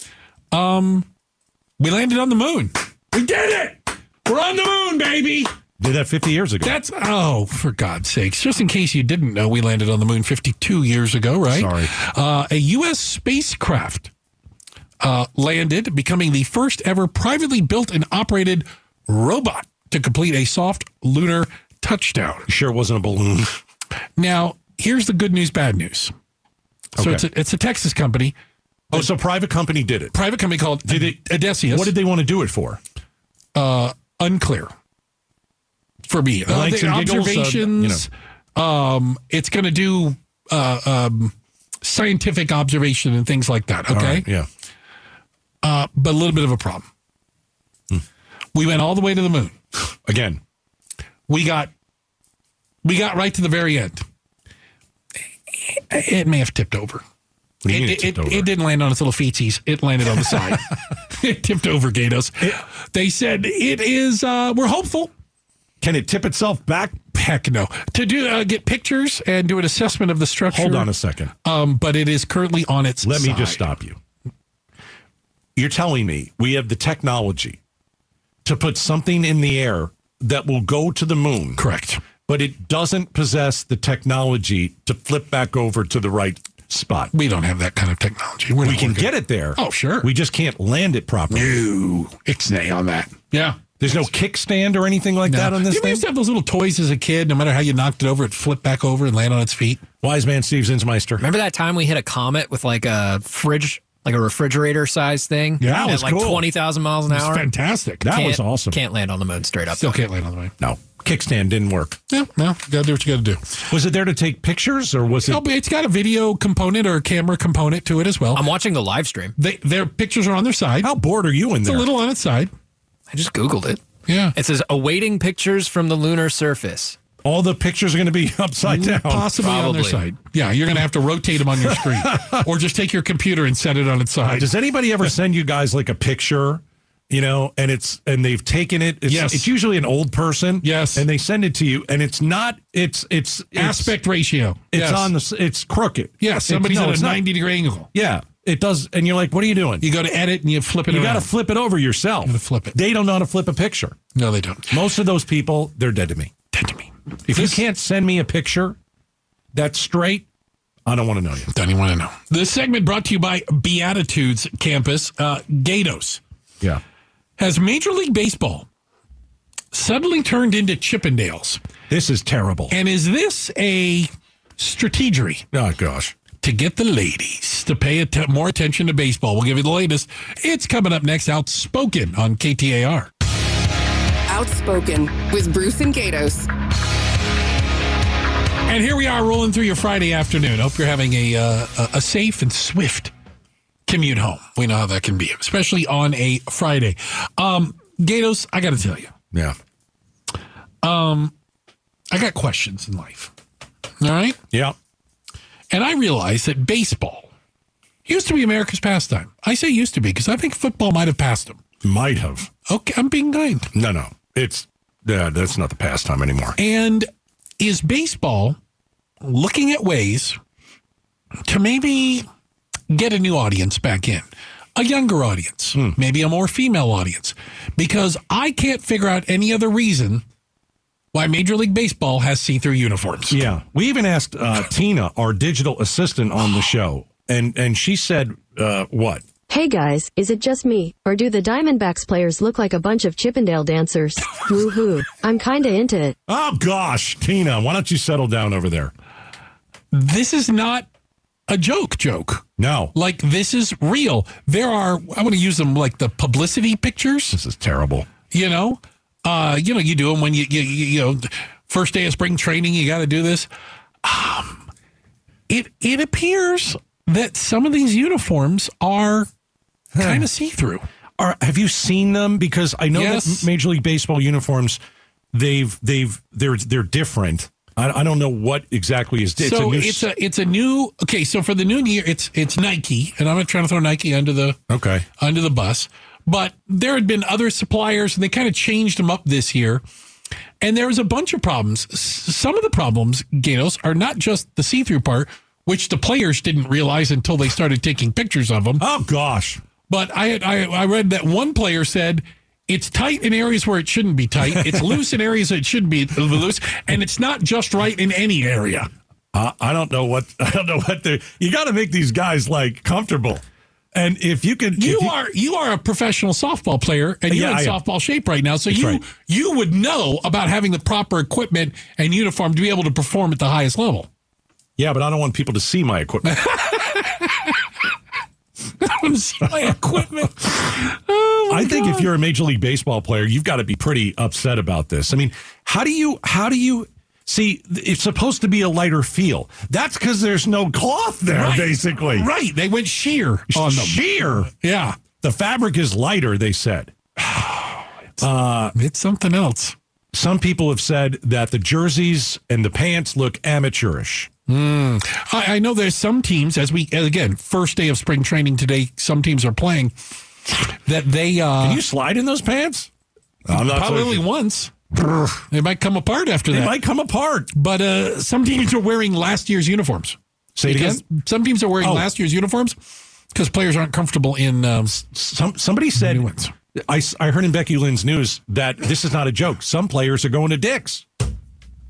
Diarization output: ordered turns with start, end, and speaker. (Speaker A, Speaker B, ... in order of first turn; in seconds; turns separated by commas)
Speaker A: 0.5-1.1, Speaker A: 1.8-5.5, Speaker B: 5.8-6.8, Speaker A: 6.6-14.1, Speaker B: 11.5-11.9, Speaker A: 15.0-22.5, Speaker B: 22.5-23.5, Speaker A: 24.2-26.1, Speaker B: 26.9-27.2, Speaker A: 27.0-28.3, Speaker B: 28.9-30.1, Speaker A: 30.1-31.9, Speaker B: 30.9-32.8, Speaker A: 33.5-34.7, Speaker A: 36.0-44.2, Speaker B: 36.5-38.0, Speaker B: 43.9-44.5, Speaker A: 45.6-46.9, Speaker A: 48.5-49.5, Speaker B: 50.0-50.4, Speaker A: 51.3-51.7, Speaker A: 52.8-54.0, Speaker A: 55.7-57.0, Speaker B: 57.6-58.5, Speaker A: 57.7-65.1, Speaker B: 65.8-67.0, Speaker A: 67.1-70.9, Speaker B: 70.5-71.3, Speaker A: 71.4-73.6, Speaker B: 73.0-74.0, Speaker B: 75.5-77.6, Speaker B: 78.4-81.7, Speaker A: 81.6-82.0, Speaker B: 82.2-87.1, Speaker A: 87.1-90.1, Speaker B: 88.6-91.6, Speaker A: 91.3-93.9, Speaker B: 93.8-96.0, Speaker A: 95.3-99.8, Speaker B: 100.0-101.2, Speaker C: 101.2-107.5, Speaker A: 105.6-106.1, Speaker B: 105.6-106.5, Speaker A: 107.1-108.1, Speaker B: 108.0-108.8, Speaker C: 108.1-110.0, Speaker A: 109.8-110.5, Speaker B: 110.6-112.0, Speaker A: 112.1-113.5, Speaker B: 113.7-115.4, Speaker A: 115.3-118.5, Speaker C: 118.3-119.3, Speaker A: 119.4-120.9, Speaker B: 120.8-121.9, Speaker A: 121.6-122.5, Speaker C: 123.1-127.0, Speaker A: 124.1-124.3, Speaker B: 127.2-129.3, Speaker A: 128.6-134.5, Speaker C: 129.3-130.0, Speaker B: 131.6-132.4, Speaker B: 134.2-143.9, Speaker A: 139.1-139.5, Speaker A: 140.6-141.1, Speaker A: 143.6-145.1, Speaker B: 144.7-147.2, Speaker A: 146.2-147.9, Speaker B: 147.9-149.8, Speaker A: 149.8-151.3, Speaker B: 150.9-154.0, Speaker A: 152.2-152.8, Speaker A: 154.1-154.8, Speaker B: 154.7-156.3, Speaker A: 156.5-157.6, Speaker B: 157.3-158.8, Speaker B: 159.5-160.2, Speaker B: 160.8-161.5, Speaker A: 161.5-166.2, Speaker A: 167.4-168.7, Speaker A: 169.7-171.6, Speaker B: 171.9-172.7, Speaker A: 172.7-175.4, Speaker B: 175.5-176.1, Speaker A: 176.4-183.1, Speaker D: 184.3-186.5, Speaker A: 188.7-193.1, Speaker A: 193.9-199.1, Speaker A: 200.8-201.3, Speaker A: 202.1-203.3, Speaker A: 204.0-204.4, Speaker A: 205.7-207.3, Speaker A: 208.1-211.6, Speaker B: 211.8-212.5, Speaker A: 212.7-213.7, Speaker B: 213.7-216.6, Speaker A: 216.6-217.1, Speaker A: 217.6-218.6, Speaker A: 219.2-220.4, Speaker A: 221.4-222.2, Speaker A: 222.9-230.2, Speaker A: 231.1-233.4, Speaker B: 233.3-239.2, Speaker E: 239.5-246.1, Speaker B: 246.3-248.9, Speaker A: 249.9-250.9, Speaker A: 251.5-252.4, Speaker B: 252.6-252.9, Speaker A: 252.9-257.4, Speaker B: 257.3-258.1, Speaker A: 258.3-263.5, Speaker A: 264.0-264.6, Speaker A: 265.5-269.3, Speaker B: 269.9-270.3, Speaker A: 270.0-270.9, Speaker B: 271.2-274.8, Speaker A: 272.9-273.4, Speaker B: 275.3-280.1, Speaker A: 279.4-284.6, Speaker B: 284.7-285.1, Speaker A: 285.2-289.8, Speaker A: 290.6-298.9, Speaker B: 298.8-299.6, Speaker A: 299.9-308.9, Speaker B: 304.4-305.0, Speaker B: 309.3-315.1, Speaker A: 314.8-324.1, Speaker B: 317.3-317.8, Speaker B: 318.7-319.0, Speaker B: 324.8-326.7, Speaker A: 326.3-327.5, Speaker A: 328.8-332.1, Speaker B: 331.5-342.3, Speaker A: 341.3-345.0, Speaker B: 343.5-344.5, Speaker B: 345.2-346.9, Speaker A: 347.3-348.2, Speaker B: 348.2-348.7, Speaker A: 348.7-349.7, Speaker B: 350.1-354.3, Speaker A: 354.5-359.9, Speaker A: 360.9-361.8, Speaker B: 361.6-362.9, Speaker B: 363.4-364.2, Speaker A: 363.5-364.7, Speaker B: 364.9-365.4, Speaker A: 365.5-366.8, Speaker B: 366.5-367.5, Speaker A: 367.5-372.8, Speaker B: 370.6-371.0, Speaker B: 371.8-372.1, Speaker A: 373.3-375.0, Speaker B: 375.1-381.1, Speaker A: 376.0-376.5